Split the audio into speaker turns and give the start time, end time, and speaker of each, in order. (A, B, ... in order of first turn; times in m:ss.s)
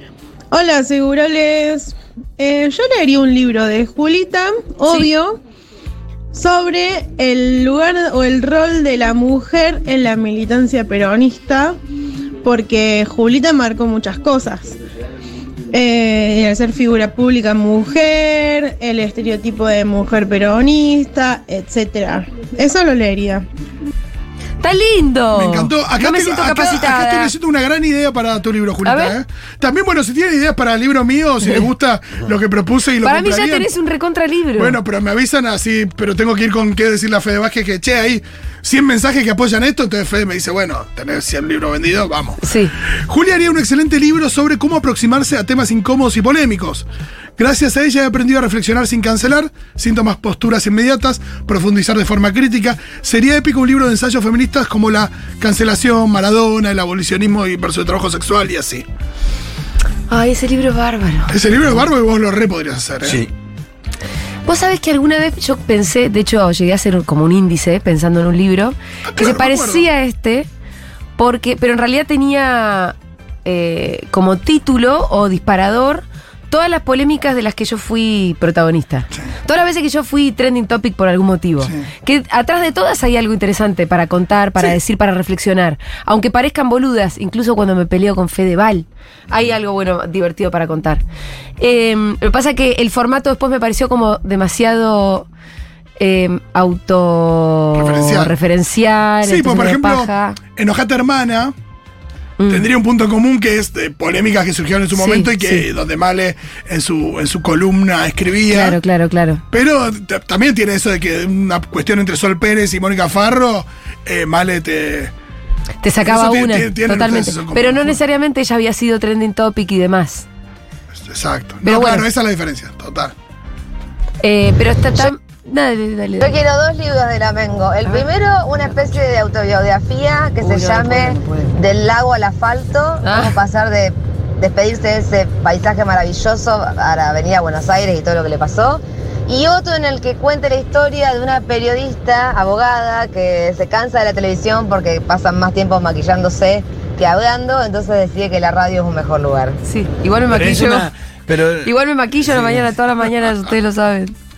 0:00.5-0:05.4 A
0:06.3-0:11.8 A
0:12.4-0:14.8 A
0:15.7-0:23.4 A
0:24.6-0:27.3 B
0:25.3-0:33.7 C
0:28.8-0:29.2 B
0:33.0-0:34.8 B
0:34.6-0:42.4 C
0:42.4-0:42.7 B
0:43.1-0:46.8 C
0:47.4-0:58.8 C
1:00.1-1:01.3 B
1:01.3-1:03.2 C
1:03.0-1:03.3 D
1:04.4-1:10.5 B
1:09.1-1:09.9 C
1:11.2-1:31.0 B
1:31.6-1:35.3 B
1:36.0-1:40.4 B
1:37.7-1:38.3 C
1:39.2-1:41.5 C
1:42.4-1:42.6 B
1:42.5-1:48.8 C
1:44.9-1:45.6 B
1:48.5-1:49.4 B
1:49.5-1:55.1 C
1:55.8-2:00.2 B
1:56.0-1:58.0 C
2:01.0-2:03.1 C
2:01.6-2:02.1 B
2:04.2-2:06.3 B
2:06.2-2:29.6 E
2:10.4-2:11.5 B
2:13.0-2:13.4 B
2:29.6-2:30.9 B
2:30.3-2:31.7 D
2:31.6-2:34.1 B
2:32.2-2:32.7 D